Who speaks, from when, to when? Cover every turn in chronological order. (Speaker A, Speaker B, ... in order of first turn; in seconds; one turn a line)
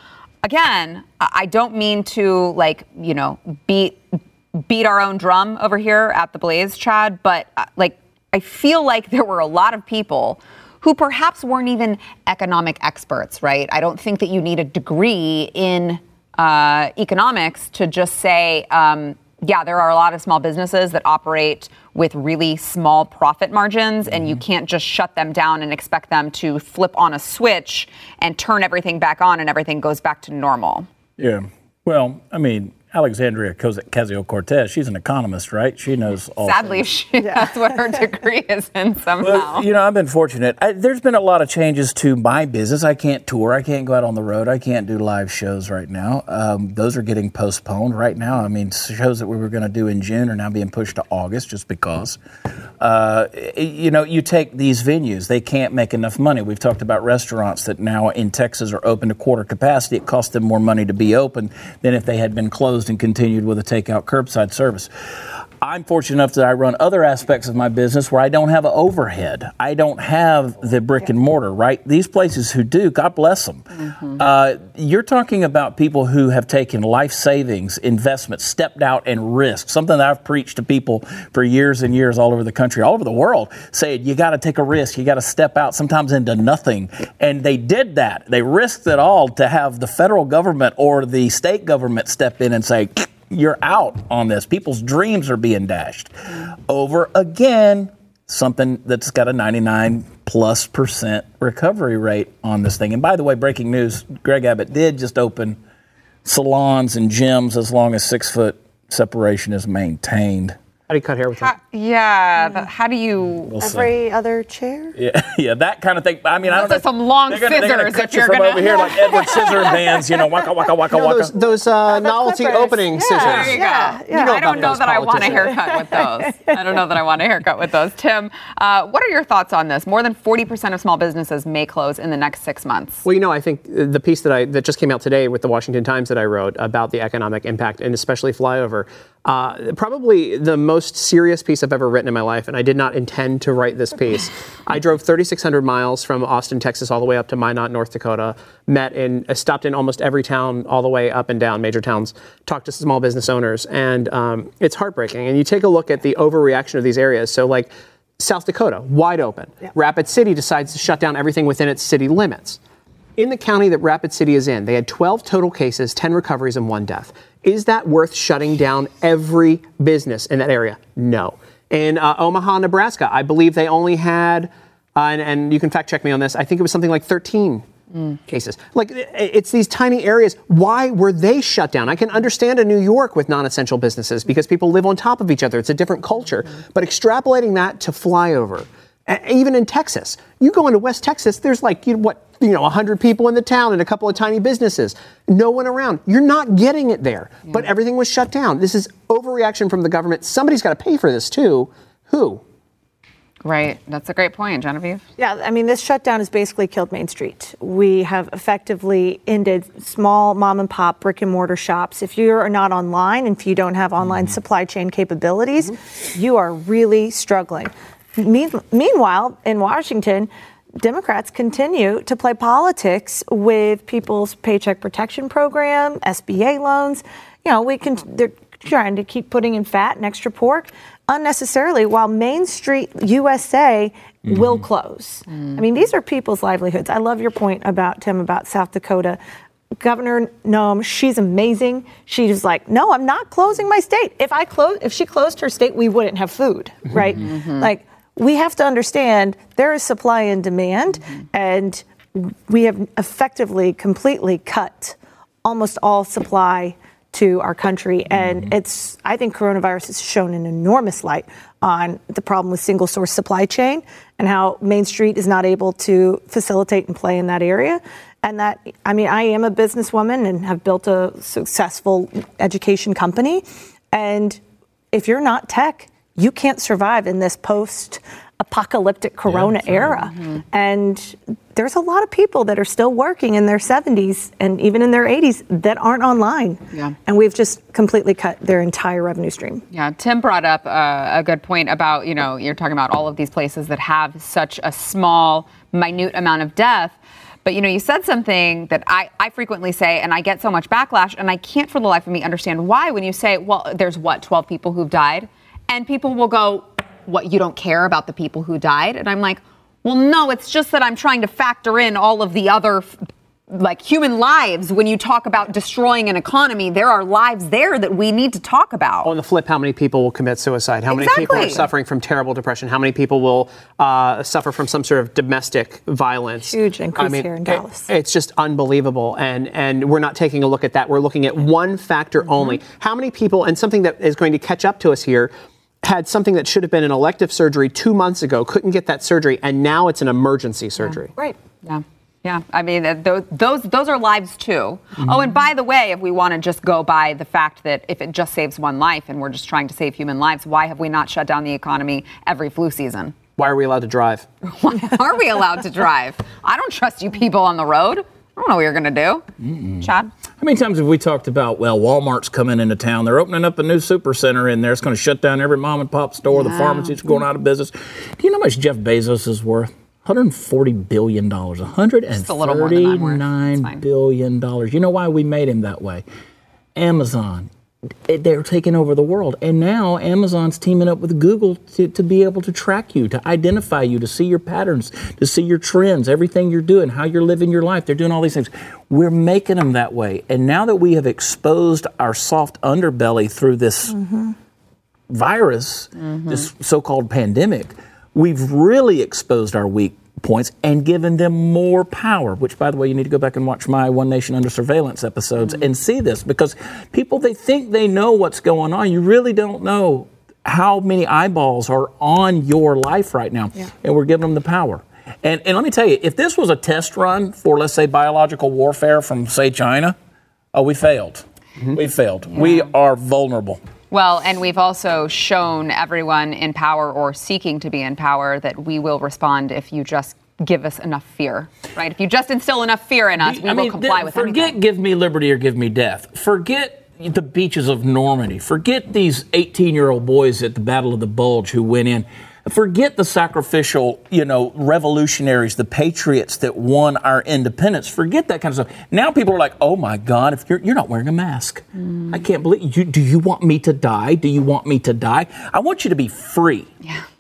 Speaker A: 0.4-30.9
Speaker B: 24.1-24.4
Speaker B: 31.2-36.9
Speaker A: 36.4-39.6
Speaker B: 39.2-52.2
Speaker B: 52.8-64.9
Speaker B: 65.6-105.6
Speaker A: 73.9-74.2
Speaker B: 106.2-110.5
Speaker C: 110.9-111.5
Speaker A: 111.4-113.6
Speaker B: 113.5-113.9
Speaker D: 113.6-115.0
Speaker B: 115.0-121.3
Speaker A: 116.5-119.7
Speaker C: 120.9-125.6
Speaker D: 121.9-124.5
Speaker A: 123.2-133.0
Speaker D: 125.3-126.6
Speaker C: 133.0-162.6
Speaker C: 163.2-202.4
Speaker A: 203.4-205.0
Speaker D: 205.2-239.2
Speaker D: 239.8-274.4
Speaker A: 247.2-247.7
Speaker D: 274.9-289.6
Speaker B: 279.3-279.9
Speaker A: 289.7-312.9
Speaker A: 313.5-319.1
Speaker C: 319.0-335.3
Speaker A: 320.9-321.6
Speaker D: 326.5-327.9
Speaker C: 335.8-341.1
Speaker A: 341.6-353.1
Speaker C: 353.4-354.2
Speaker A: 354.4-359.2
Speaker B: 359.4-359.9
Speaker A: 359.8-360.1
Speaker B: 360.4-376.0
Speaker A: 366.3-366.9
Speaker A: 372.1-373.8
Speaker B: 376.7-377.5
Speaker B: 378.1-394.0
Speaker D: 393.9-394.3
Speaker B: 395.1-419.9
Speaker B: 420.5-423.6
Speaker A: 422.3-422.7
Speaker A: 423.9-434.6
Speaker B: 433.2-456.7